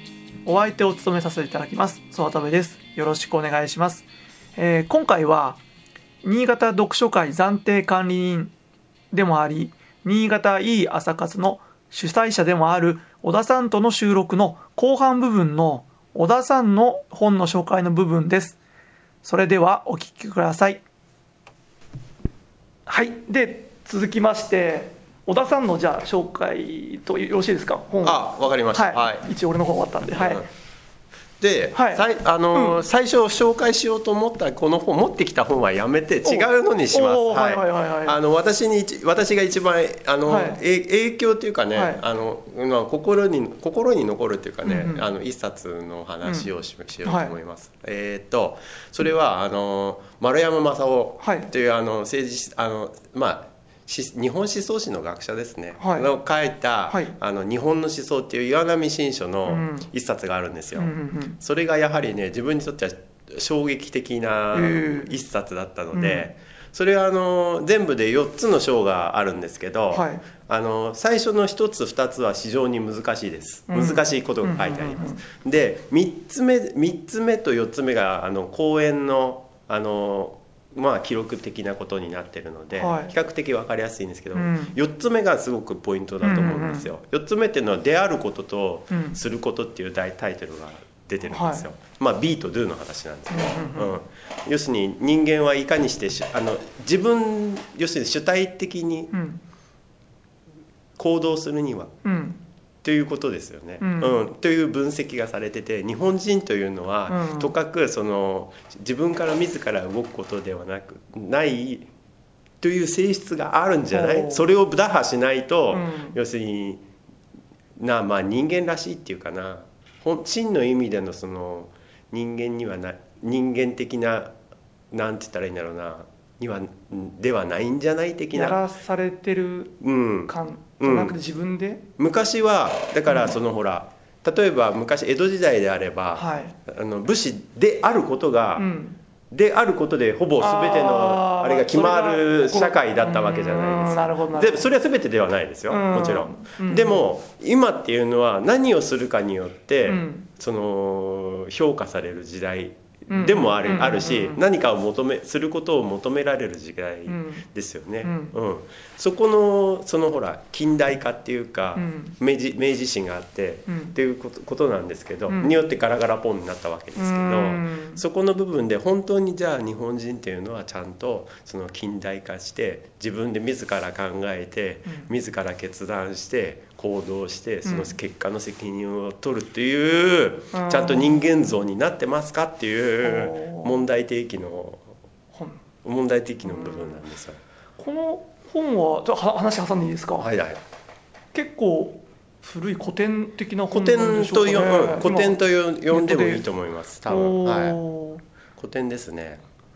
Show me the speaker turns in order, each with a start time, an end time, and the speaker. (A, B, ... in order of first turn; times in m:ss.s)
0:00.4-0:05.6 A
0:06.2-0:08.5 A
0:09.1-0:18.6 A
0:19.2-0:20.8 A
0:22.9-0:30.5 A
0:28.0-0:29.3 B
0:30.1-0:30.5 B
0:31.4-1:39.1 B
0:31.7-0:32.8 A
0:36.2-0:38.2 A
0:40.3-0:40.6 A
0:41.7-0:42.0 A
0:44.6-0:45.1 A
0:47.0-0:47.4 A
0:51.2-0:51.5 A
0:55.8-0:56.1 A
0:56.9-0:57.2 A
0:59.5-0:59.9 A
1:00.8-1:01.4 A
1:04.5-1:05.1 A
1:05.9-1:06.3 A
1:09.9-1:10.2 A
1:13.7-1:15.2 A
1:22.8-1:23.2 A
1:24.3-1:24.8 A
1:26.2-1:26.9 A
1:28.9-1:29.2 A
1:31.3-1:31.7 A
1:33.3-1:34.0 A
1:39.1-1:39.4 A
1:41.0-1:41.9 B
1:42.0-1:42.4 A
1:42.8-1:51.9 B
1:43.8-1:44.2 A
1:47.1-1:47.5 A
1:52.6-1:56.8 B
1:53.9-1:54.5 A
1:55.7-1:56.2 A
1:57.8-2:04.3 B
2:04.9-2:08.6 B
2:08.3-2:11.8 A
2:09.8-2:11.2 B
2:12.0-2:18.7 B
2:13.1-2:13.4 A
2:16.2-2:16.6 A
2:18.6-2:19.0 A
2:19.3-3:04.8 B
2:20.4-2:24.7 A
2:25.7-2:27.1 A
2:29.8-2:30.3 A
2:33.1-2:34.4 A
2:37.1-2:37.5 A
2:38.0-2:38.4 A
2:41.8-2:42.2 A
2:43.7-2:44.0 A
2:45.3-2:45.6 A
2:47.0-2:48.0 A
2:57.6-2:58.0 A
3:00.5-3:01.3 A
3:03.0-3:03.8 A
3:05.3-3:05.6 A
3:05.8-3:07.4 B
3:06.4-3:07.0 A
3:07.8-3:10.3 A
3:10.2-3:10.6 B
3:11.3-3:16.4 A
3:13.7-3:17.8 B
3:17.1-3:18.2 A
3:18.6-3:19.4 B